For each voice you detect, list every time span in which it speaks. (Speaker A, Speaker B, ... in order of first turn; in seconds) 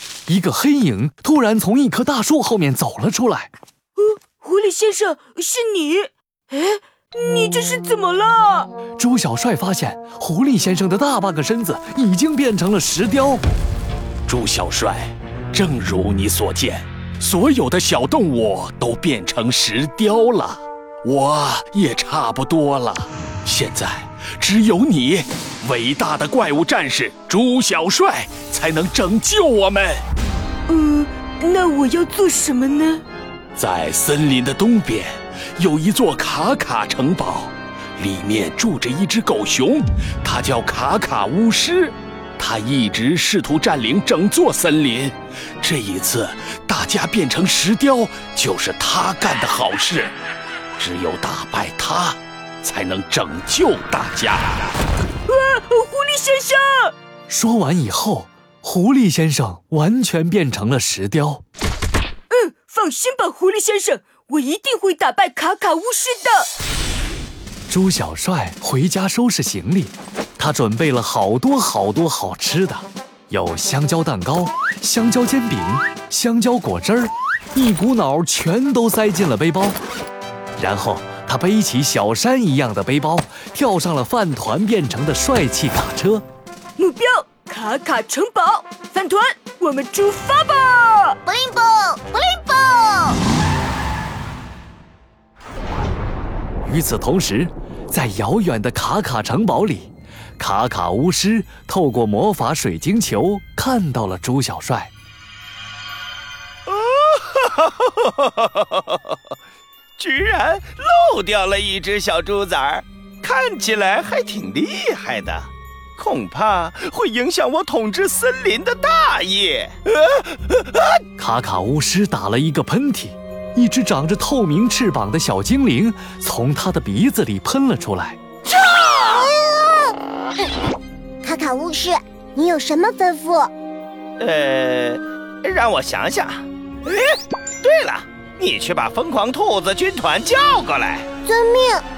Speaker A: 0.3-3.5, 9.0-13.4, 57.3-61.4, 67.7-79.8, 80.6-86.2, 96.6-104.9, 121.2-128.2
Speaker B: 4.0-8.7, 30.7-33.0, 55.2-56.9, 62.3-66.5, 86.8-91.2
Speaker C: 14.3-30.0, 33.5-50.1, 50.8-54.7
Speaker D: 91.2-93.2, 129.1-129.9, 131.2-133.5, 141.2-141.8
Speaker E: 106.7-109.0, 110.0-121.0, 128.5-129.2, 134.2-141.1